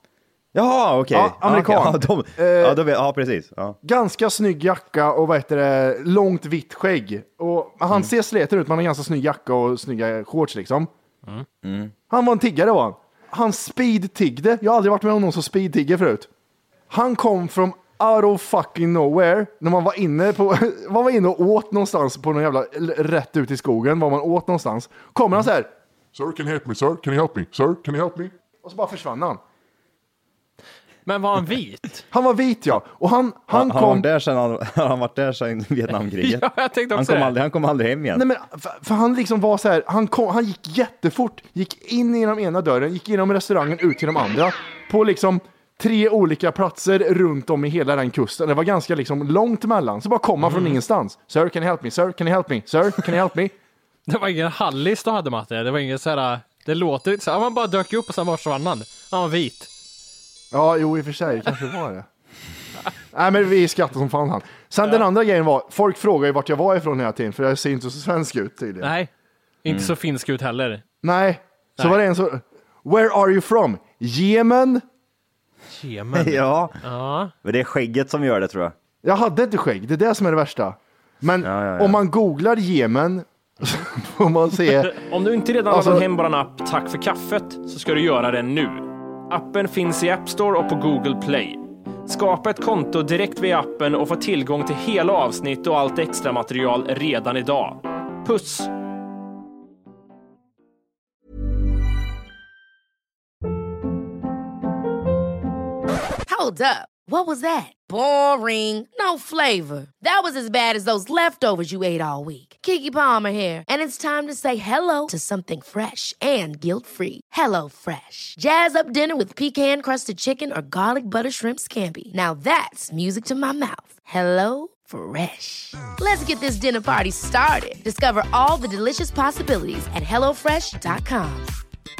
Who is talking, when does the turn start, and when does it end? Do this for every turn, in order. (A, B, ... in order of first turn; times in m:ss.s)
0:00.5-0:03.8 A
0:01.1-0:02.8 B
0:03.8-0:10.9 B
0:11.6-0:11.9 A
0:12.1-0:16.3 B
0:16.9-0:25.7 B
0:26.1-0:28.3 C
0:28.6-0:29.4 B
0:31.0-0:32.0 D
0:32.1-0:34.1 B
0:33.5-0:38.2 A
0:36.2-0:37.3 D
0:38.1-0:53.5 B
0:50.4-0:50.8 D
0:54.1-0:59.7 D
1:00.5-1:02.1 B
1:03.1-1:08.9 B
1:08.8-1:09.1 D
1:09.6-1:10.8 D
1:09.6-1:09.9 A
1:11.0-1:14.8 B
1:15.7-1:17.3 D
1:16.1-1:16.8 A
1:17.4-1:18.7 A
1:19.0-1:25.0 B
1:21.4-1:22.0 A
1:24.9-1:38.7 D
1:25.7-1:26.0 B
1:46.3-2:11.5 E